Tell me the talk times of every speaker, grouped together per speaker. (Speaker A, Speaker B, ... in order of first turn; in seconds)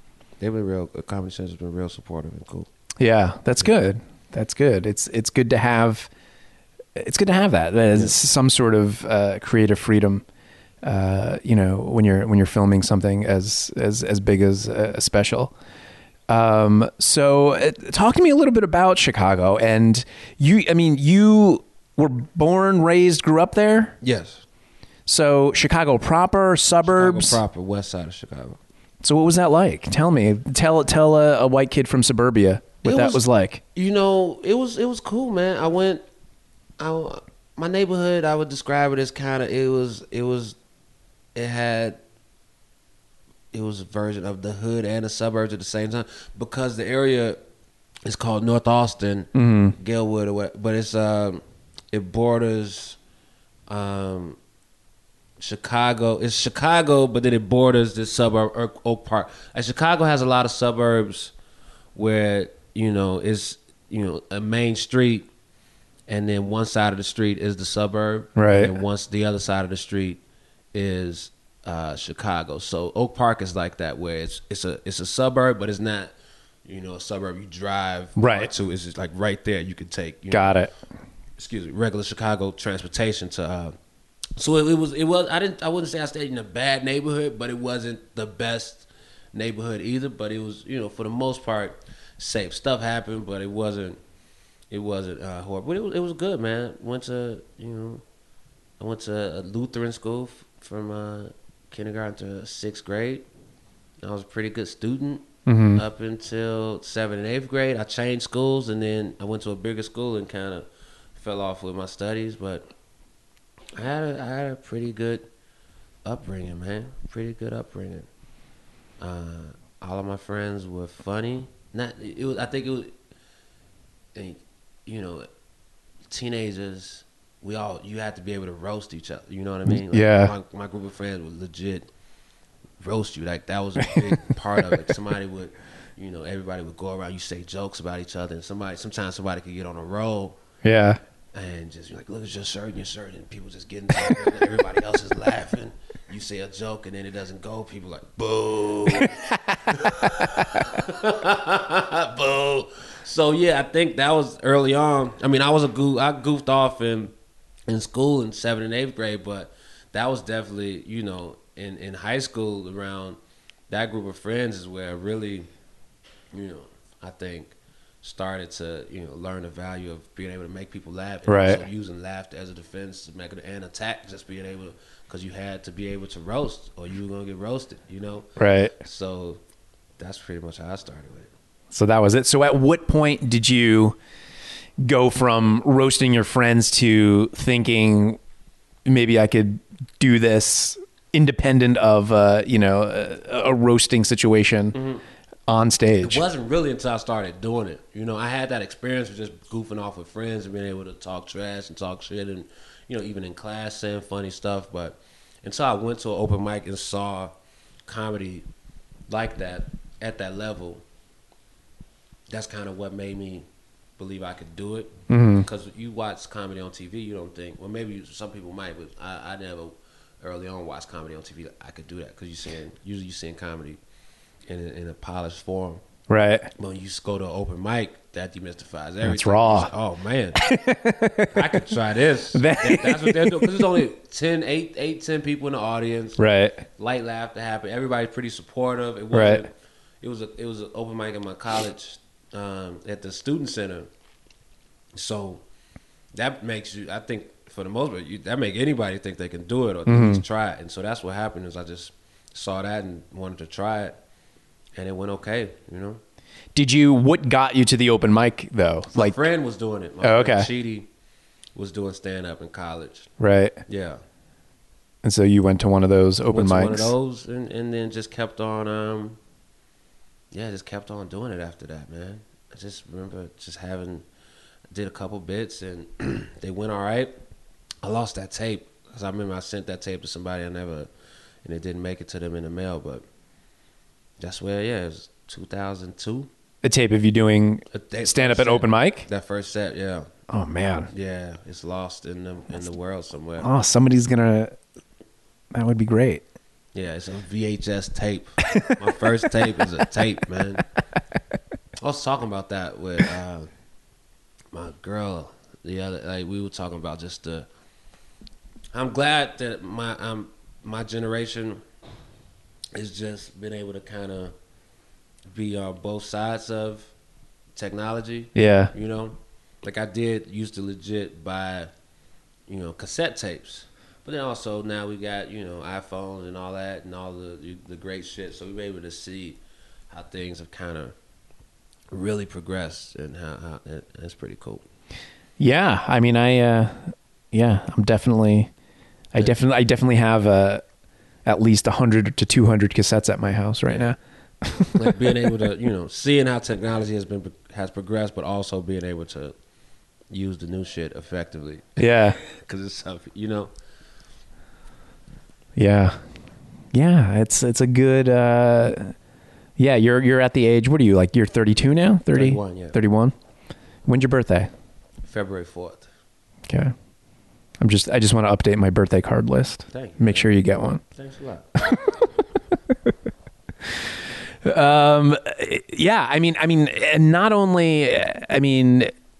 Speaker A: 0.4-2.7, 24.0-24.4, 26.8-28.6, 32.8-33.2, 33.7-36.0, 36.8-40.6, 41.3-42.0, 43.5-47.4, 48.0-53.0, 53.7-54.4, 55.4-61.3, 61.9-65.3, 66.1-70.2, 70.7-76.1, 76.6-80.6, 81.4-83.7, 84.4-94.0, 94.7-98.0, 98.8-103.2, 104.0-112.7, 113.8-115.2, 116.0-118.1, 119.0-122.9, 124.1-125.3, 126.1-131.9, 132.8-140.4, 141.3-149.2, 149.7-157.1, 157.7-163.2, 163.7-165.5, 166.3-178.3, 178.8-179.4, 180.0-181.3, 194.7-195.0, 196.0-207.3, 207.9-208.4, 209.1-210.8, 212.3-213.4, 214.0-223.8, 224.5-225.8, 226.6-230.4, 231.3-236.2, 236.8-239.5, 240.0-243.9, 244.9-245.4, 246.1-253.9, 254.8-256.0, 258.9-260.9, 261.5-263.1, 263.7-264.0, 266.3-269.2, 270.3-274.0, 274.7-277.1, 277.8-280.9, 281.4-283.0, 284.2-286.3, 287.7-290.1, 290.9-293.5, 296.7-300.6, 301.8-303.5, 304.5-307.5, 308.7-311.6, 312.7-314.3, 315.3-316.9, 317.6-321.7, 322.5-329.4, 329.9-330.9, 331.9-334.6, 344.7-349.3, 350.1-353.5, 362.1-362.8, 365.1-365.9, 369.7-371.6
Speaker B: 3.0-6.1, 7.0-10.2, 10.8-15.5, 16.3-24.0, 25.1-27.4, 29.0-33.6, 49.3-49.7, 68.3-68.7, 78.2-78.5, 80.3-80.7, 105.5-105.8, 129.7-130.3, 140.6-141.0, 148.9-150.6, 171.3-171.6, 178.4-178.7, 181.7-183.9, 184.8-188.2, 188.8-194.7, 195.5-196.2, 215.1-215.4, 226.1-226.5, 229.0-229.7, 230.4-231.6, 232.3-233.8, 236.2-236.6, 239.1-239.4, 249.9-250.2, 256.5-259.2, 260.0-260.5, 263.2-263.6, 265.0-266.9, 286.6-289.1, 290.3-290.9, 293.4-294.6, 295.5-296.2, 298.5-298.9, 318.3-318.7, 335.4-338.5, 339.1-340.6, 341.2-345.0, 351.8-352.2, 355.6-356.0, 356.7-358.9, 359.6-363.1, 363.9-364.5, 366.5-366.7, 367.6-370.8, 374.4-378.9